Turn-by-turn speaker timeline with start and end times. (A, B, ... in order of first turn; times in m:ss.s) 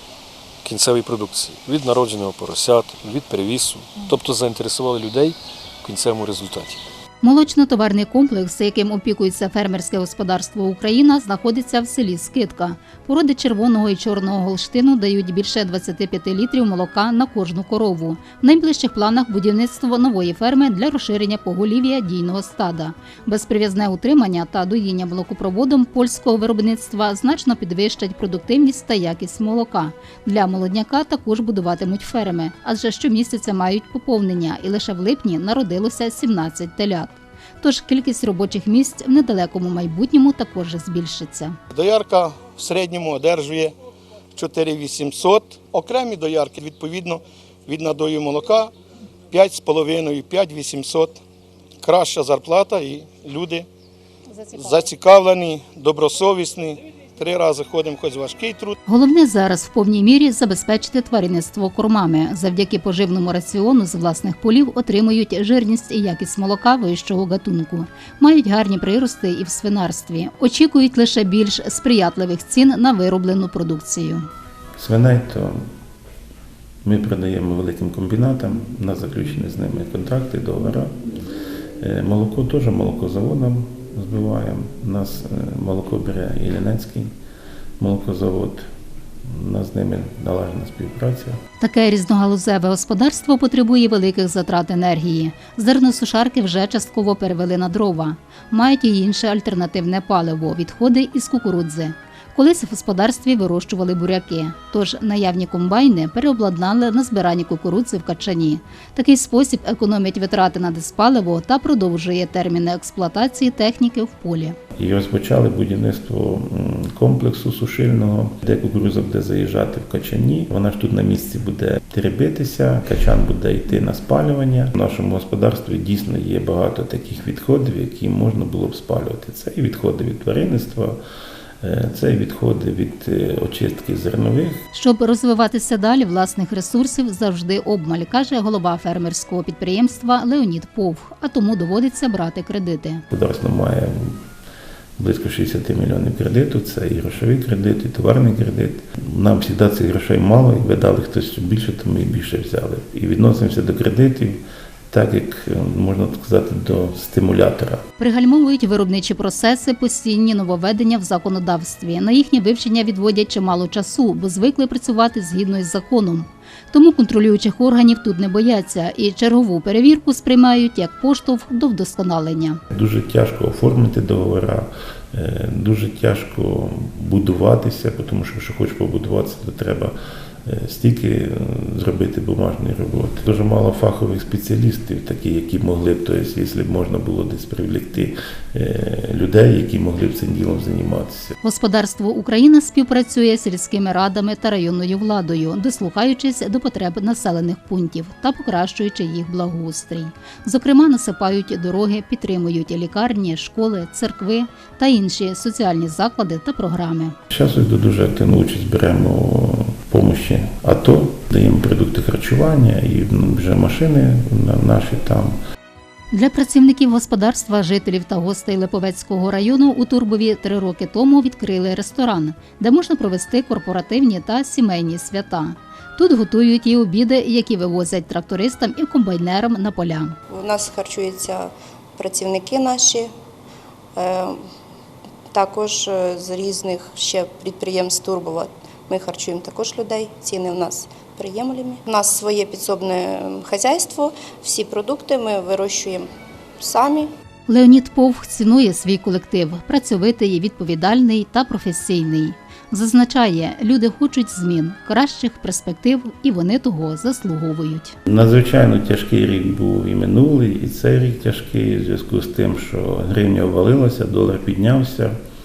0:00.6-0:06.8 A
0:07.2-0:41.6 B
0:41.7-0:43.7 C
0:44.4-0:48.7 C
0:49.3-0:51.2 C
0:51.8-0:53.7 C
0:54.4-0:54.8 B
0:54.5-0:58.8 C
0:58.9-1:14.3 B
1:14.8-1:15.6 D
1:16.8-1:21.0 D
1:21.8-1:27.1 D
1:27.8-1:28.7 D
1:29.3-1:31.4 D
1:31.6-1:54.6 B
1:54.8-2:11.0 D
2:11.6-2:14.6 D
2:14.7-2:23.0 B
2:23.1-2:24.2 D
2:25.0-2:37.8 D
2:38.0-2:52.6 B
2:52.7-2:59.9 D
3:00.5-3:11.4 D
3:11.4-3:27.2 B
3:27.3-3:35.4 D
3:36.1-3:50.2 B
3:50.3-3:53.1 E
3:54.0-3:54.4 E
3:55.3-4:06.1 E
4:06.6-4:07.1 E
4:07.5-4:18.0 B
4:18.1-4:25.2 D